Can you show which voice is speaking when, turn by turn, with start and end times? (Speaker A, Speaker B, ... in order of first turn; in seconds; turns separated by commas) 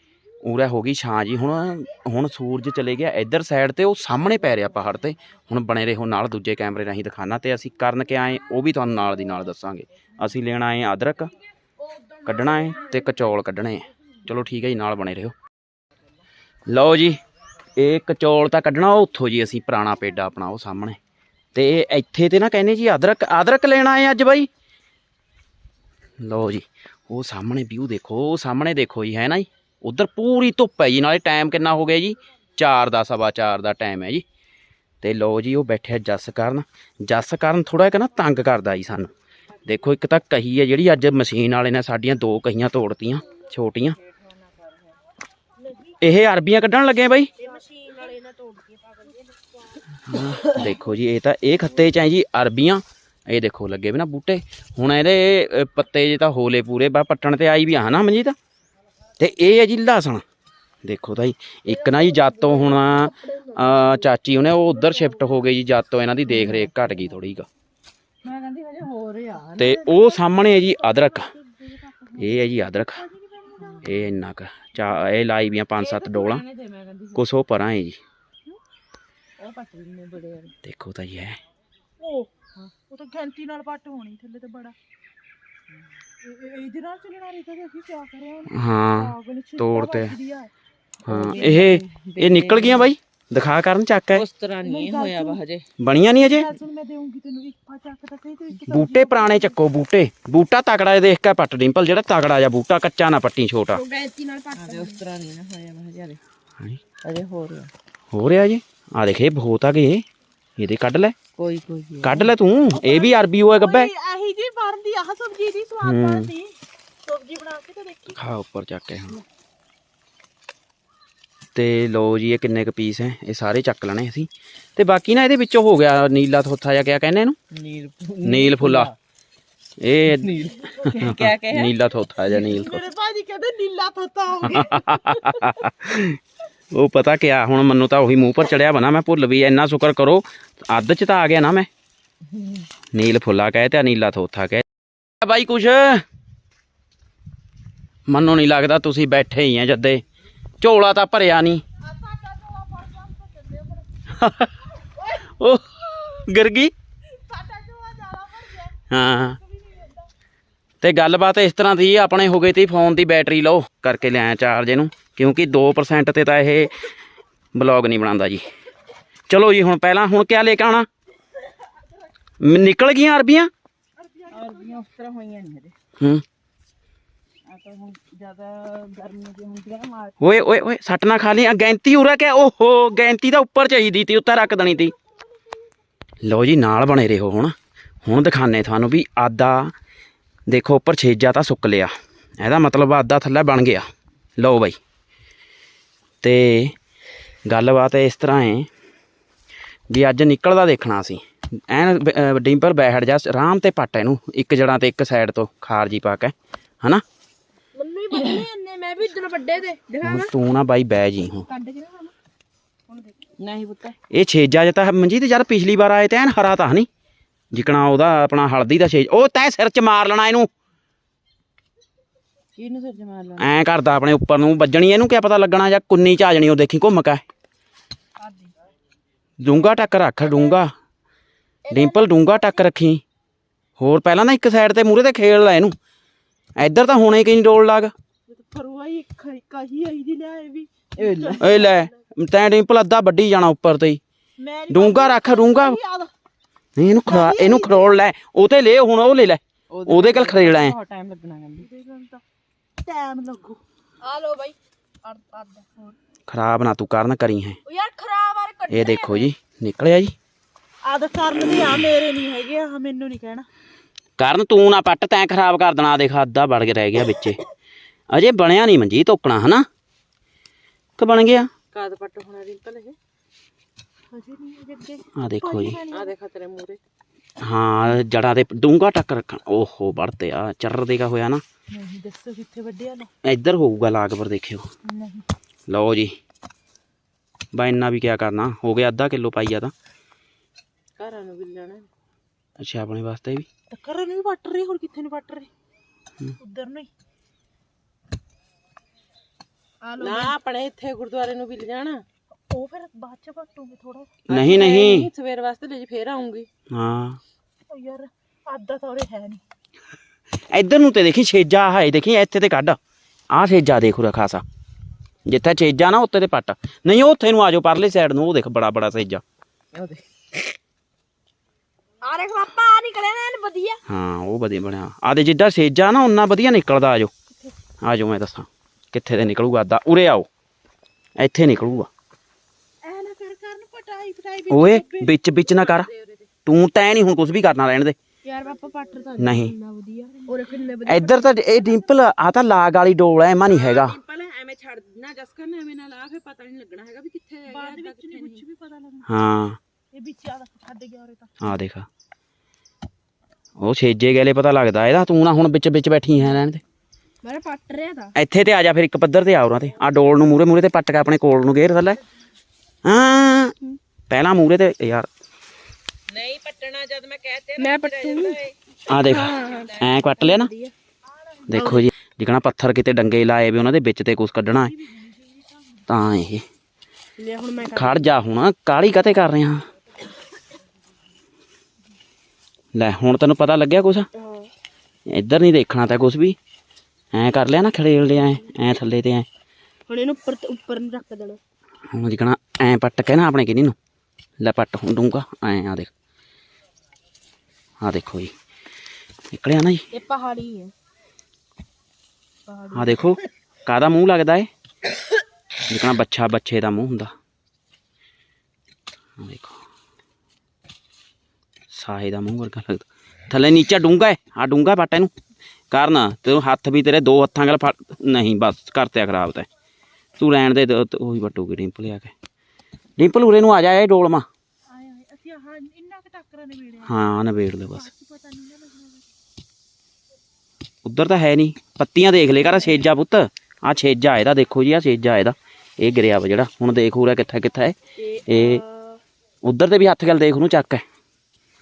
Speaker A: 0.4-11.3, Speaker B: 11.8-13.2, Speaker A: 12.2-15.3, Speaker A: 16.7-17.2, Speaker A: 17.8-21.0, Speaker A: 21.5-24.5, Speaker A: 26.2-34.2, Speaker A: 35.0-39.1, Speaker A: 39.6-44.0, Speaker C: 43.9-44.9, Speaker A: 46.0-47.3, Speaker B: 47.4-49.8, Speaker A: 50.1-58.4, Speaker A: 59.2-60.2, Speaker A: 60.8-67.5, Speaker B: 61.7-64.0, Speaker B: 64.8-65.3, Speaker C: 66.3-66.7, Speaker C: 68.2-69.9, Speaker A: 69.6-71.3, Speaker D: 69.6-74.0, Speaker A: 72.2-73.0, Speaker A: 73.8-76.4, Speaker C: 75.8-77.2, Speaker A: 77.1-78.0, Speaker C: 79.4-80.5, Speaker A: 80.6-81.4, Speaker D: 82.0-84.8, Speaker D: 86.2-90.5, Speaker A: 88.5-90.2, Speaker C: 91.0-92.9, Speaker A: 91.0-94.2, Speaker C: 94.1-95.6, Speaker D: 94.6-95.4, Speaker A: 95.8-96.5, Speaker D: 96.2-99.5, Speaker A: 98.6-103.8, Speaker B: 103.7-105.0, Speaker C: 104.5-106.2, Speaker C: 107.0-107.7, Speaker A: 108.1-110.0, Speaker A: 110.6-111.1, Speaker C: 111.4-112.3, Speaker A: 112.0-113.9, Speaker D: 112.7-118.2, Speaker A: 115.8-116.3, Speaker A: 118.1-119.2, Speaker A: 121.5-127.4, Speaker C: 127.5-128.9, Speaker A: 128.2-128.9, Speaker A: 129.8-130.4, Speaker C: 130.1-131.7, Speaker A: 131.0-132.9, Speaker D: 132.3-135.4, Speaker A: 134.4-136.2, Speaker A: 136.7-141.7, Speaker A: 142.9-144.6, Speaker A: 145.2-146.0, Speaker A: 148.1-150.0, Speaker A: 150.6-151.6, Speaker D: 151.8-153.8, Speaker A: 154.1-154.5, Speaker A: 155.2-156.7, Speaker D: 157.2-158.8, Speaker A: 158.9-159.4, Speaker D: 159.3-160.1, Speaker A: 160.8-166.9, Speaker A: 167.5-168.4, Speaker A: 169.3-170.9, Speaker A: 172.4-173.5, Speaker D: 174.0-174.8, Speaker C: 174.3-175.7, Speaker A: 176.0-176.2, Speaker C: 177.5-180.2, Speaker A: 180.2-184.9, Speaker A: 186.2-189.7, Speaker A: 190.5-194.8, Speaker A: 196.2-196.7, Speaker A: 197.4-198.7, Speaker A: 199.9-207.0, Speaker B: 207.7-210.3, Speaker A: 210.0-211.5, Speaker D: 211.5-211.9, Speaker C: 213.4-214.0, Speaker A: 214.1-216.9, Speaker A: 217.5-220.5, Speaker C: 222.6-223.5, Speaker A: 223.4-227.2, Speaker A: 229.4-230.7, Speaker B: 231.6-232.6, Speaker A: 231.7-233.0, Speaker A: 233.8-235.7, Speaker A: 236.6-237.9, Speaker D: 238.3-241.8, Speaker C: 240.9-241.7, Speaker A: 241.4-244.0, Speaker D: 244.4-246.1, Speaker A: 244.7-245.8, Speaker A: 246.8-250.7, Speaker D: 247.1-247.9, Speaker C: 249.7-251.7, Speaker D: 251.6-252.2, Speaker D: 252.8-253.6, Speaker B: 254.0-255.8, Speaker A: 256.3-257.6, Speaker B: 257.6-259.3, Speaker A: 258.7-260.1, Speaker D: 260.8-263.5, Speaker A: 264.2-267.4, Speaker A: 268.1-269.7, Speaker A: 271.0-271.5, Speaker C: 271.7-273.0, Speaker D: 274.1-276.1, Speaker A: 275.1-275.8, Speaker C: 275.9-276.8, Speaker A: 277.4-281.4, Speaker D: 281.7-283.1, Speaker A: 283.2-284.7, Speaker D: 284.8-285.2, Speaker A: 285.7-286.1, Speaker A: 287.5-289.7, Speaker C: 291.0-291.9, Speaker A: 292.6-293.5, Speaker D: 293.7-295.5, Speaker D: 296.4-296.9, Speaker D: 299.8-300.3, Speaker C: 300.0-302.0, Speaker D: 302.5-304.1, Speaker A: 304.3-305.1, Speaker C: 304.3-306.5, Speaker A: 306.7-307.2, Speaker D: 307.7-309.4, Speaker A: 310.5-312.8, Speaker A: 313.3-314.4, Speaker A: 315.2-319.2, Speaker C: 319.7-320.5, Speaker B: 322.0-323.8, Speaker A: 323.9-327.1, Speaker A: 327.8-330.3, Speaker A: 331.2-331.9, Speaker D: 332.8-335.1, Speaker A: 334.5-335.9, Speaker C: 335.4-336.3, Speaker A: 336.4-337.9, Speaker B: 338.2-341.7, Speaker A: 339.2-339.5, Speaker D: 340.1-340.7, Speaker A: 340.9-344.0, Speaker C: 343.4-348.4, Speaker D: 347.5-349.1, Speaker A: 349.1-349.6, Speaker D: 349.9-351.4, Speaker A: 351.4-351.9, Speaker A: 353.6-356.6, Speaker B: 357.2-358.1, Speaker A: 358.1-362.0, Speaker A: 362.8-363.5, Speaker A: 364.1-365.1, Speaker C: 366.1-368.5, Speaker B: 367.6-368.4, Speaker A: 368.9-370.5, Speaker B: 369.0-370.7, Speaker C: 369.6-370.0, Speaker D: 371.1-371.8, Speaker A: 371.5-374.7, Speaker B: 371.5-371.8, Speaker D: 374.5-375.9, Speaker A: 375.9-376.4, Speaker B: 377.2-378.1, Speaker A: 377.7-379.6, Speaker A: 382.7-384.1, Speaker B: 384.1-384.5, Speaker A: 385.1-386.4, Speaker A: 387.1-389.3, Speaker B: 389.9-391.4, Speaker A: 391.9-393.8, Speaker A: 394.4-395.9, Speaker A: 397.8-398.3, Speaker A: 399.3-399.8, Speaker B: 399.9-400.7, Speaker B: 402.5-403.1, Speaker A: 402.7-404.5, Speaker A: 405.7-407.1, Speaker A: 409.2-409.6, Speaker A: 411.7-415.1, Speaker A: 415.7-419.5, Speaker A: 420.2-422.1, Speaker A: 423.0-424.3, Speaker D: 424.7-426.9, Speaker A: 426.8-427.9, Speaker D: 427.7-429.1, Speaker A: 430.8-438.6, Speaker B: 438.0-439.0, Speaker A: 439.4-440.8